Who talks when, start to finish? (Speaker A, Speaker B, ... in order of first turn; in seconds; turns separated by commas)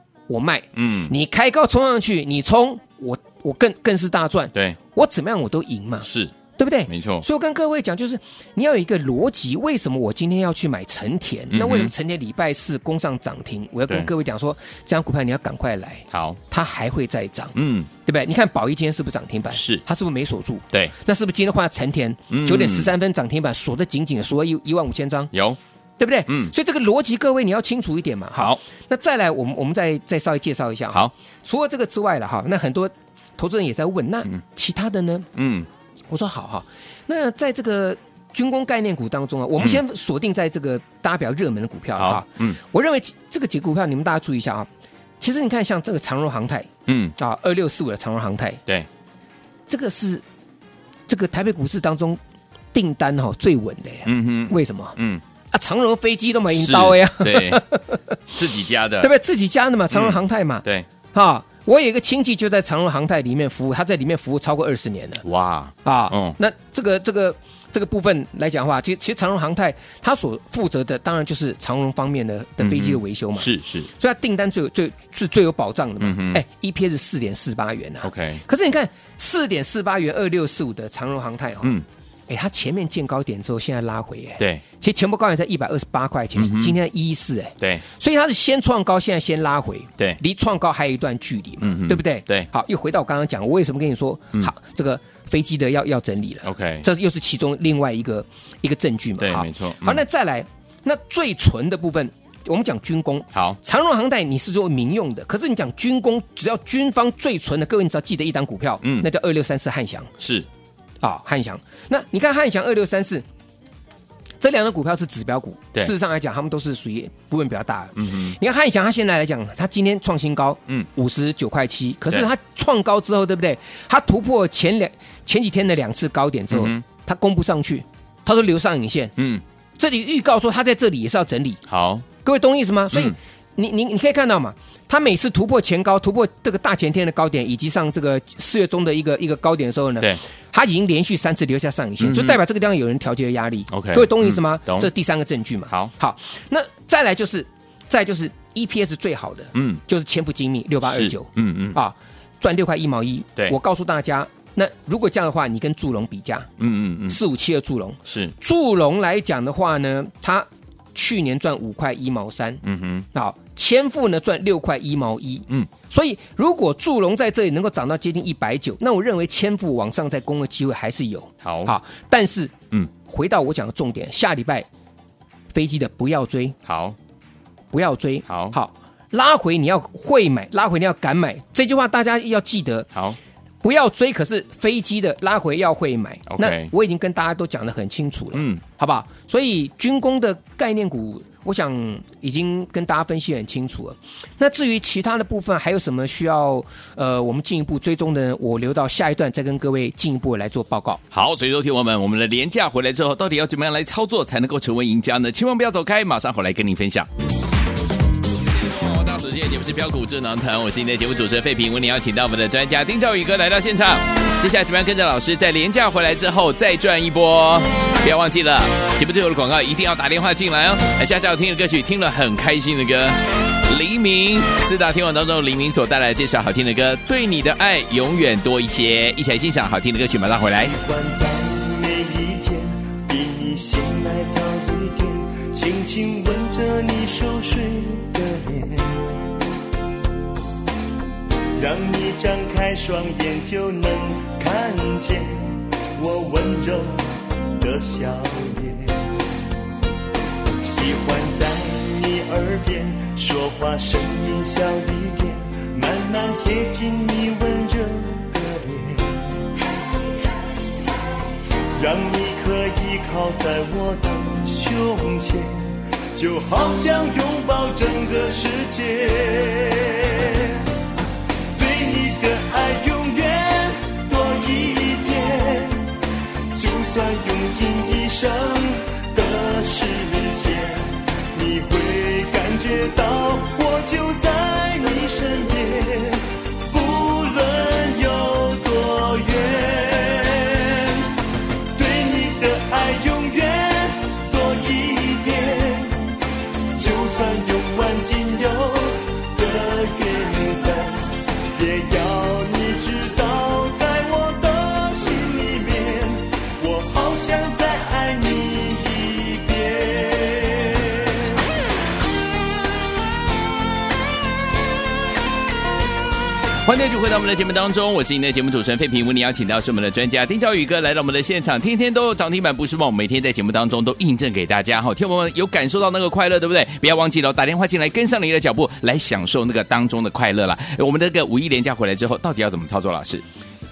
Speaker A: 0.3-17.5, Speaker B: 0.7-1.1, Speaker B: 6.0-6.3, Speaker B: 6.9-7.2, Speaker B: 11.5-11.9, Speaker B: 16.1-16.4, Speaker B: 17.5-17.9, Speaker A: 18.0-25.3, Speaker B: 19.5-19.8, Speaker B: 22.3-22.9, Speaker B: 25.3-25.6, Speaker A: 26.0-35.3, Speaker B: 26.3-26.5, Speaker B: 28.4-28.6, Speaker B: 35.4-35.7, Speaker A: 36.1-44.7, Speaker B: 42.0-42.6, Speaker A: 45.2-48.6, Speaker B: 46.9-47.1, Speaker A: 49.7-50.2, Speaker A: 51.1-52.2, Speaker A: 52.7-55.0, Speaker B: 54.0-55.2, Speaker A: 55.5-58.2, Speaker B: 56.5-57.6, Speaker B: 58.3-59.1, Speaker A: 59.0-65.2, Speaker B: 59.9-60.9, Speaker B: 65.2-66.4, Speaker A: 65.8-81.8, Speaker B: 72.6-73.9, Speaker B: 76.0-76.4, Speaker B: 78.0-78.4, Speaker A: 82.3-110.1, Speaker B: 84.4-84.6, Speaker B: 86.3-86.8, Speaker B: 91.6-92.5, Speaker B: 96.4-96.8, Speaker B: 99.2-100.0, Speaker B: 103.3-103.6, Speaker B: 110.2-110.5, Speaker A: 111.0-113.2, Speaker A: 114.4-129.1, Speaker B: 118.0-118.3, Speaker B: 126.5-126.8, Speaker B: 129.2-129.4, Speaker A: 129.8-131.6, Speaker B: 131.7-132.1, Speaker A: 132.2-156.5, Speaker B: 142.0-142.4, Speaker B: 143.7-144.9, Speaker B: 149.5-149.8, Speaker B: 150.8-151.8, Speaker B: 156.6-157.2, Speaker A: 157.1-162.6, Speaker B: 158.1-158.3, Speaker B: 162.6-163.0, Speaker A: 163.1-174.7, Speaker B: 171.4-171.7, Speaker A: 175.5-176.6, Speaker B: 176.7-177.0, Speaker A: 177.7-182.9, Speaker B: 178.3-178.6, Speaker B: 182.9-183.2, Speaker A: 183.6-201.0, Speaker B: 186.3-186.7, Speaker B: 188.3-188.6, Speaker B: 201.1-207.1, Speaker B: 208.5-230.7, Speaker C: 230.4-239.2, Speaker C: 241.6-249.1, Speaker C: 250.6-259.4, Speaker C: 261.7-270.7, Speaker C: 271.5-276.0, Speaker C: 276.5-291.1, Speaker C: 291.8-296.2, Speaker C: 296.7-311.4, Speaker B: 316.6-333.2